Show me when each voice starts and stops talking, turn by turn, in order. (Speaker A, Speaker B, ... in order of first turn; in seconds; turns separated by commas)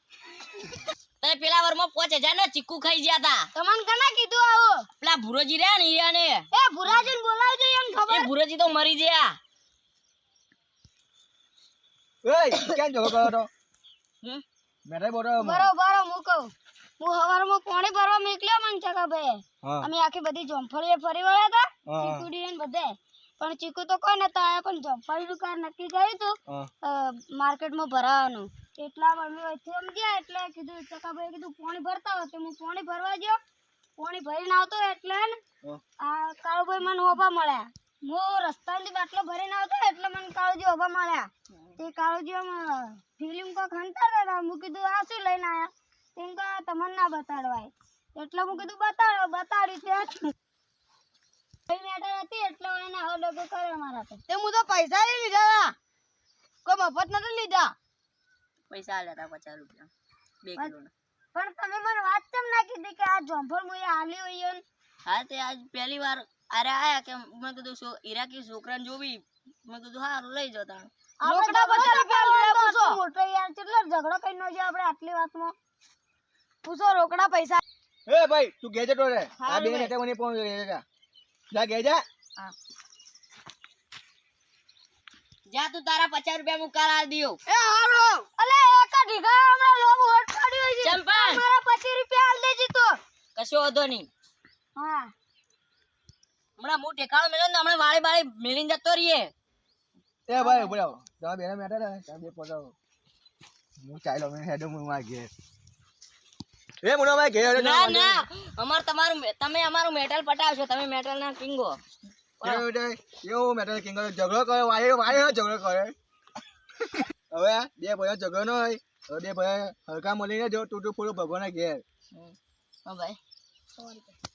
Speaker A: 1.2-3.5, Speaker B: 3.5-4.9, Speaker A: 5.0-7.1, Speaker B: 6.5-8.3, Speaker A: 8.1-9.4, Speaker C: 12.2-13.5, Speaker C: 14.8-15.7, Speaker B: 15.4-33.4, Speaker C: 19.6-19.9, Speaker C: 21.9-22.3, Speaker B: 34.0-35.4, Speaker B: 36.0-50.3, Speaker A: 41.5-41.8, Speaker B: 51.7-54.2, Speaker D: 54.3-55.7, Speaker D: 56.6-57.7, Speaker A: 58.7-59.9, Speaker A: 60.4-60.9, Speaker B: 61.3-64.6, Speaker A: 65.0-70.9, Speaker B: 71.2-75.5, Speaker D: 71.2-73.0, Speaker D: 76.6-77.6, Speaker C: 78.1-80.8, Speaker D: 79.4-79.9, Speaker C: 81.5-82.0, Speaker A: 85.5-87.4, Speaker D: 87.5-88.3, Speaker B: 88.4-93.0, Speaker A: 90.8-91.4, Speaker A: 93.3-94.1, Speaker B: 94.8-95.1, Speaker A: 96.6-99.3, Speaker C: 100.3-102.7, Speaker B: 100.4-100.8, Speaker C: 103.8-105.3, Speaker C: 106.8-108.2, Speaker A: 107.5-111.8, Speaker C: 112.4-116.0, Speaker C: 116.9-121.8, Speaker A: 122.1-123.2, Speaker B: 123.8-124.1